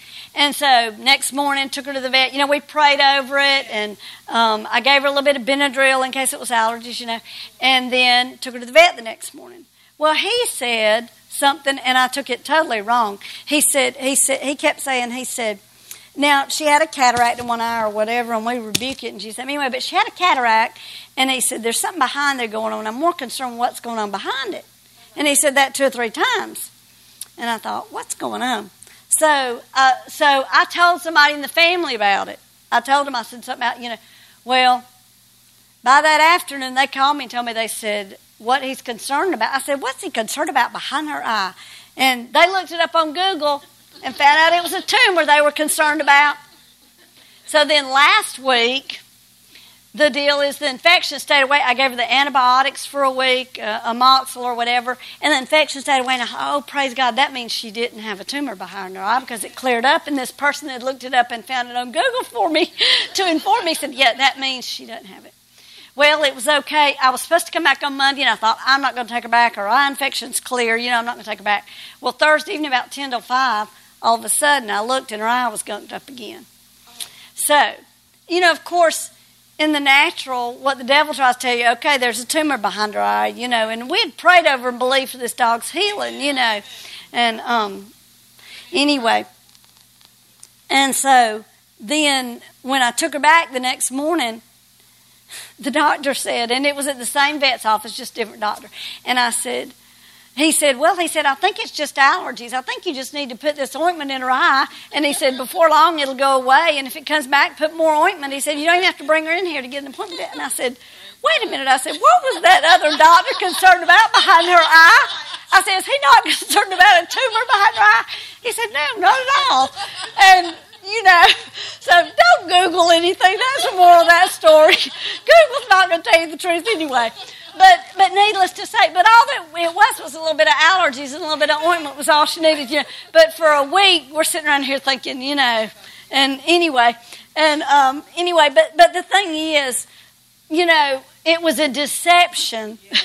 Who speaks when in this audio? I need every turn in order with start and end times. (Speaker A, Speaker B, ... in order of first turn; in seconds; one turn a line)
Speaker A: 0.3-15.6
Speaker A: 16.2-26.7
Speaker A: 27.4-34.8
Speaker A: 35.8-46.4
Speaker A: 47.5-49.0
Speaker A: 49.9-65.3
Speaker A: 66.0-76.5
Speaker A: 77.3-77.8
Speaker A: 78.3-87.9
Speaker A: 88.7-89.2
Speaker A: 90.7-94.4
Speaker A: 95.6-99.7
Speaker A: 100.4-139.9
Speaker A: 140.5-142.8